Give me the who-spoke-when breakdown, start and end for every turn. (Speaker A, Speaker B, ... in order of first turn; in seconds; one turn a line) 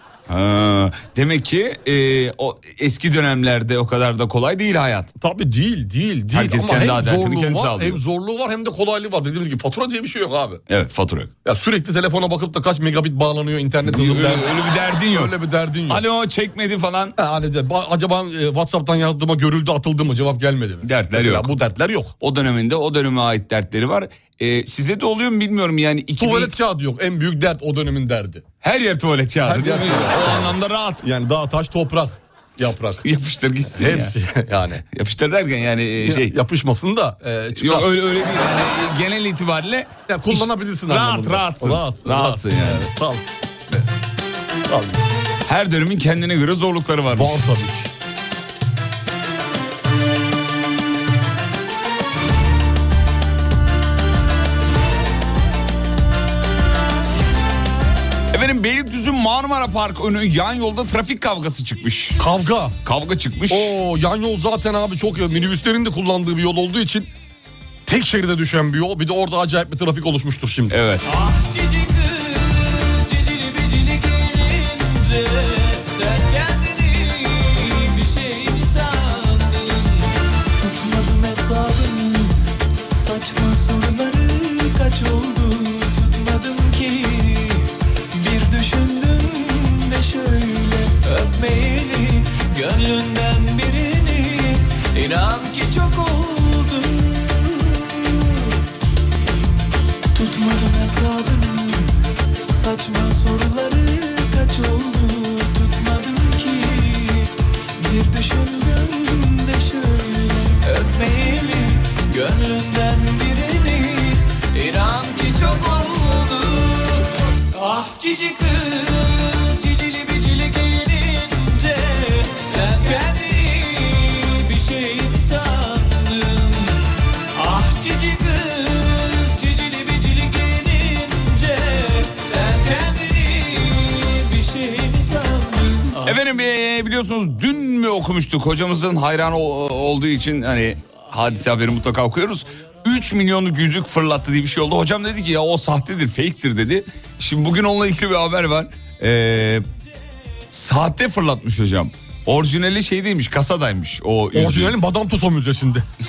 Speaker A: 0.3-5.1
Speaker B: 5.2-10.6
Speaker A: 6.3-8.0
Speaker A: 10.7-11.3
Speaker B: 11.4-14.5
Speaker A: 13.8-15.3
Speaker B: 15.1-16.0
Speaker A: 15.9-17.2
Speaker B: 17.2-22.1
Speaker A: 20.8-21.6
Speaker A: 22.2-26.5
Speaker B: 26.2-28.4
Speaker A: 28.6-31.1
Speaker B: 29.4-33.0
Speaker A: 33.0-34.1
Speaker B: 33.7-34.8
Speaker A: 34.9-36.4
Speaker B: 36.0-37.9
Speaker A: 37.5-42.9
Speaker B: 40.1-43.8
Speaker B: 44.7-45.0
Speaker A: 45.5-47.5
Speaker B: 47.1-47.9
Speaker A: 58.3-62.3
Speaker B: 62.2-62.8
Speaker A: 62.8-63.8
Speaker B: 63.5-67.1
Speaker B: 67.9-70.8
Speaker A: 70.7-71.1
Speaker C: 71.0-82.4
Speaker C: 82.9-98.5
Speaker C: 100.1-101.9
Speaker C: 102.5-136.2
Speaker A: 136.0-149.7
Speaker A: 150.5-154.8
Speaker B: 154.3-155.9